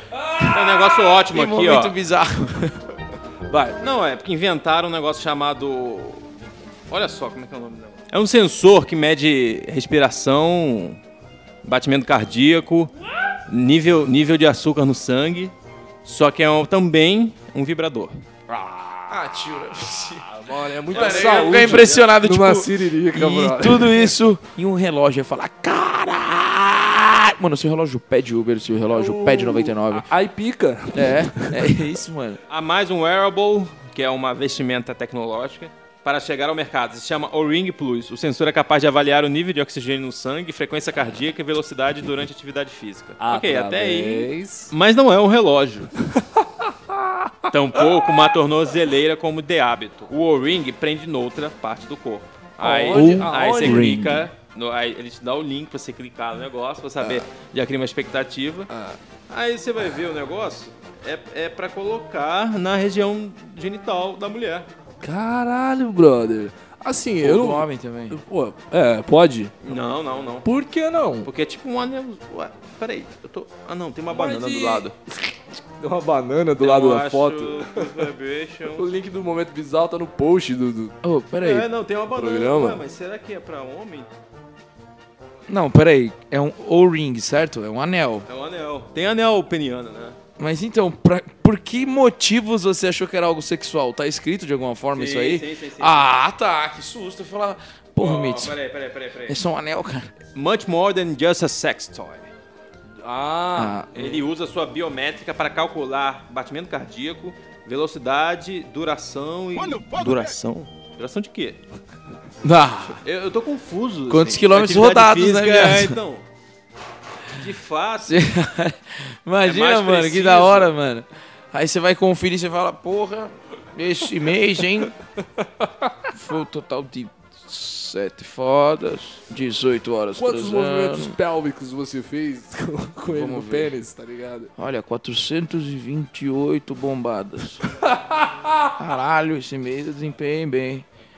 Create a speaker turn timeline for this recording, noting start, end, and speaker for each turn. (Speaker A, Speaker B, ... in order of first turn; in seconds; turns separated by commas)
Speaker A: 0.2-0.6, Speaker B: 0.4-2.8, Speaker C: 0.5-2.0, Speaker A: 3.5-3.8, Speaker C: 3.8-6.2, Speaker C: 6.9-11.0, Speaker C: 11.6-12.9, Speaker C: 13.5-15.5, Speaker C: 16.1-18.2, Speaker B: 19.1-20.3, Speaker A: 20.3-24.1, Speaker B: 20.9-30.1, Speaker C: 20.9-22.0, Speaker A: 28.9-31.8, Speaker B: 30.9-32.4, Speaker C: 32.5-45.9, Speaker A: 43.2-44.7, Speaker A: 46.1-47.5, Speaker C: 47.5-58.7, Speaker A: 52.6-54.0, Speaker B: 52.9-54.3, Speaker A: 58.7-59.0, Speaker C: 59.3-64.7, Speaker A: 65.0-69.6, Speaker B: 67.2-68.2, Speaker C: 69.6-70.5, Speaker A: 70.4-71.3, Speaker C: 71.2-75.0, Speaker A: 74.1-78.1, Speaker C: 76.6-78.9, Speaker A: 78.7-81.0, Speaker B: 81.0-81.7, Speaker C: 81.4-84.1, Speaker A: 82.1-82.8, Speaker B: 85.5-88.3, Speaker C: 88.3-90.2, Speaker B: 90.4-98.6, Speaker C: 94.9-96.1, Speaker C: 98.0-99.4, Speaker B: 99.3-100.1, Speaker C: 100.3-102.3, Speaker A: 103.0-104.2, Speaker B: 103.5-103.9, Speaker C: 103.9-111.6, Speaker B: 112.4-113.0, Speaker C: 113.0-116.2, Speaker B: 114.1-116.0, Speaker C: 117.3-118.2, Speaker B: 118.0-125.0, Speaker C: 119.4-120.7, Speaker A: 125.2-125.9, Speaker B: 126.1-131.2, Speaker A: 130.2-134.5, Speaker B: 133.1-133.7, Speaker B: 134.6-137.6, Speaker A: 137.7-138.8, Speaker B: 138.8-140.9